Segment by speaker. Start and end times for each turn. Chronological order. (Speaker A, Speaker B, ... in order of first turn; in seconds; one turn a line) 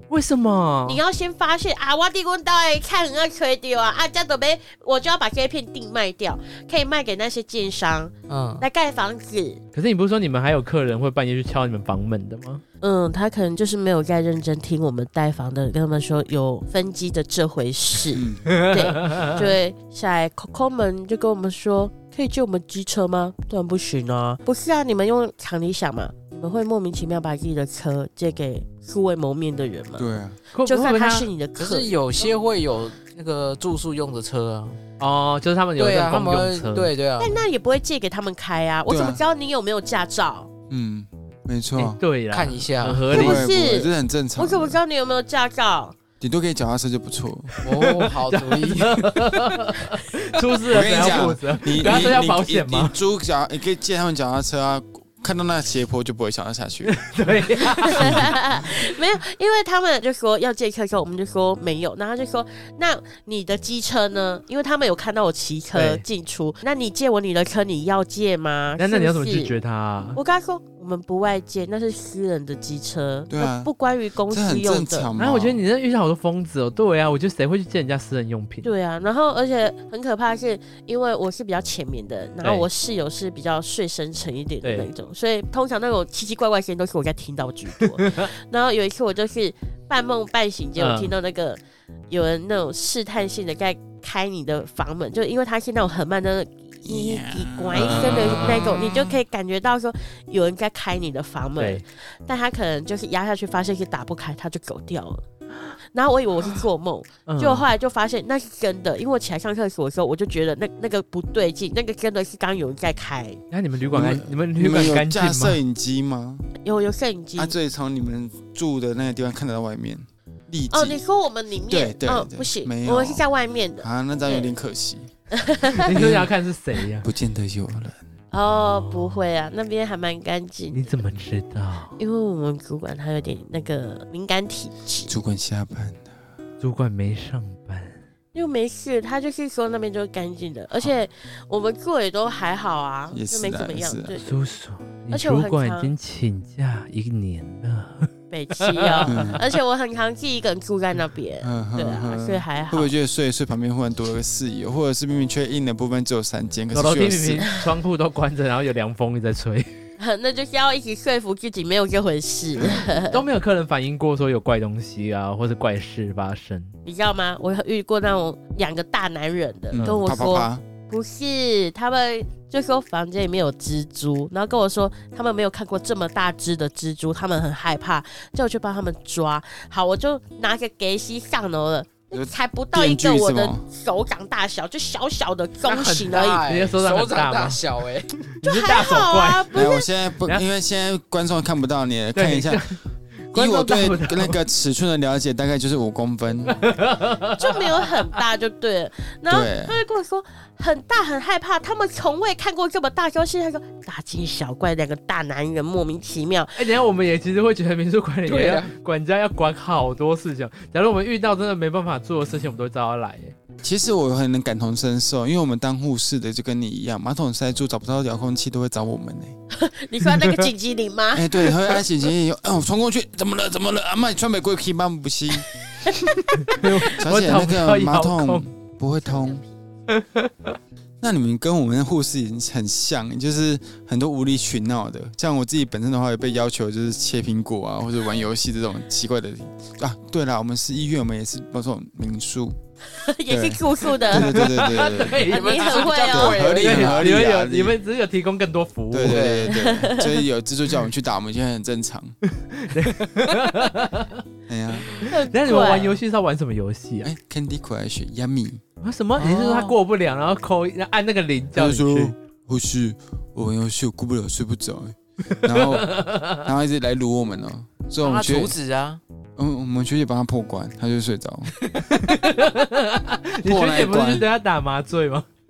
Speaker A: 0.1-1.0
Speaker B: 0.9-9.6
Speaker C: 8.3-8.7
Speaker A: 9.7-12.6
Speaker B: 12.8-31.9
Speaker D: 18.1-18.4
Speaker A: 18.5-19.4
Speaker D: 30.0-30.4
Speaker A: 30.5-31.3
Speaker C: 31.6-34.8
Speaker A: 35.0-36.9
Speaker C: 35.8-37.4
Speaker B: 37.2-40.5
Speaker D: 38.9-39.2
Speaker D: 40.7-42.0
Speaker A: 41.8-43.5
Speaker C: 42.3-43.1
Speaker D: 43.1-44.8
Speaker B: 43.1-46.0
Speaker D: 46.2-47.5
Speaker A: 47.6-52.9
Speaker C: 47.6-49.1
Speaker D: 50.7-57.0
Speaker A: 56.9-58.3
Speaker B: 57.8-69.5
Speaker D: 58.0-58.3
Speaker A: 65.7-66.0
Speaker A: 68.8-70.2
Speaker B: 70.2-75.1
Speaker D: 73.3-73.7
Speaker D: 74.3-75.6
Speaker A: 75.2-78.7
Speaker B: 78.6-105.2
Speaker A: 84.6-84.9
Speaker A: 87.8-88.3
Speaker A: 90.8-91.1
Speaker D: 96.9-99.1
Speaker A: 97.7-98.7
Speaker A: 101.6-101.8
Speaker B: 105.9-113.4
Speaker A: 107.3-107.7
Speaker A: 113.5-115.6
Speaker D: 113.9-116.5
Speaker B: 116.6-117.5
Speaker D: 117.4-121.0
Speaker B: 120.7-124.5
Speaker D: 121.7-123.2
Speaker D: 123.8-125.1
Speaker B: 125.3-125.9
Speaker A: 125.8-127.1
Speaker D: 125.9-126.3
Speaker D: 127.0-128.0
Speaker B: 128.3-131.0
Speaker A: 128.6-129.2
Speaker A: 130.7-132.0
Speaker B: 132.0-135.1
Speaker D: 135.1-136.1
Speaker A: 136.6-138.0
Speaker B: 138.3-144.4
Speaker D: 143.1-144.1
Speaker A: 144.2-149.4
Speaker B: 145.1-145.9
Speaker B: 148.3-152.9
Speaker D: 149.1-149.4
Speaker D: 151.4-157.5
Speaker A: 156.7-159.7
Speaker B: 160.0-163.2
Speaker A: 163.1-166.7
Speaker B: 166.8-186.4
Speaker D: 169.7-170.6
Speaker D: 182.1-183.6
Speaker C: 185.6-188.1
Speaker A: 186.4-187.6
Speaker A: 188.3-189.7
Speaker B: 188.4-189.9
Speaker D: 189.5-192.6
Speaker A: 192.2-192.8
Speaker A: 193.3-194.4
Speaker D: 193.3-196.6
Speaker A: 196.5-197.9
Speaker B: 197.4-206.7
Speaker D: 199.3-199.8
Speaker A: 206.6-213.3
Speaker C: 208.3-208.7
Speaker D: 213.6-219.3
Speaker B: 219.5-221.8
Speaker A: 220.1-220.4
Speaker D: 221.1-229.4
Speaker B: 225.8-226.6
Speaker A: 226.4-228.4
Speaker A: 229.9-230.5
Speaker D: 231.0-242.6
Speaker B: 242.9-244.6
Speaker D: 243.3-245.3
Speaker A: 244.1-245.9
Speaker C: 245.0-247.2
Speaker B: 245.3-246.6
Speaker D: 246.1-247.8
Speaker A: 246.6-249.4
Speaker D: 248.9-252.2
Speaker C: 249.1-249.6
Speaker B: 249.5-250.2
Speaker A: 252.3-254.2
Speaker D: 254.5-255.1
Speaker B: 255.1-256.0
Speaker A: 255.1-257.1
Speaker D: 257.0-258.6
Speaker A: 258.8-262.1
Speaker C: 259.2-259.8
Speaker D: 261.6-268.6
Speaker A: 265.4-266.4
Speaker C: 268.0-269.0
Speaker D: 269.4-272.1
Speaker A: 271.9-275.2
Speaker D: 273.4-274.3